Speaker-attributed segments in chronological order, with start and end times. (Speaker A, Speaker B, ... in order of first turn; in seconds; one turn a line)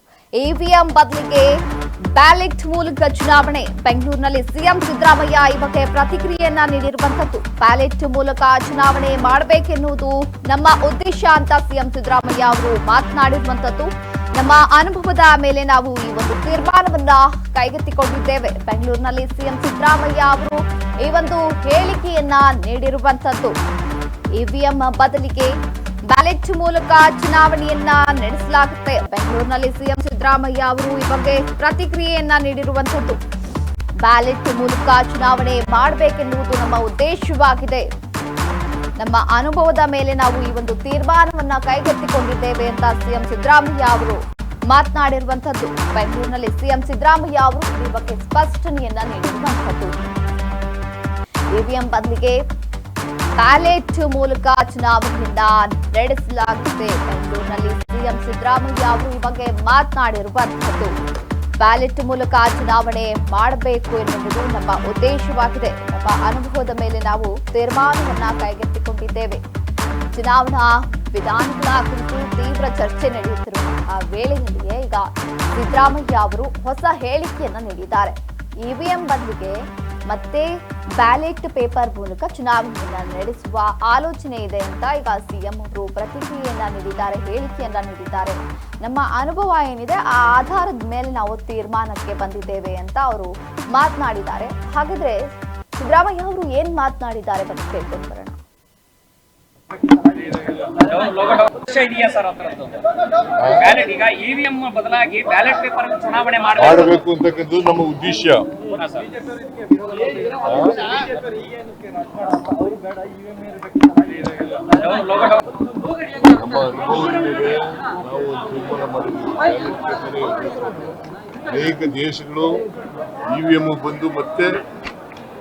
Speaker A: 0.4-1.5
Speaker A: 2.1-23.5
Speaker A: 24.4-25.5
Speaker A: 26.1-33.2
Speaker A: 34.0-37.9
Speaker A: 39.0-50.1
Speaker A: 51.5-52.4
Speaker A: 53.4-60.9
Speaker A: 61.6-69.4
Speaker A: 70.1-95.2
Speaker A: 95.8-98.4
Speaker B: 100.6-102.8
Speaker C: 103.4-103.7
Speaker B: 103.6-106.9
Speaker C: 106.5-108.5
Speaker B: 108.8-109.1
Speaker C: 110.4-110.9
Speaker B: 114.7-115.4
Speaker C: 116.2-120.9
Speaker C: 121.5-122.6
Speaker C: 123.3-124.5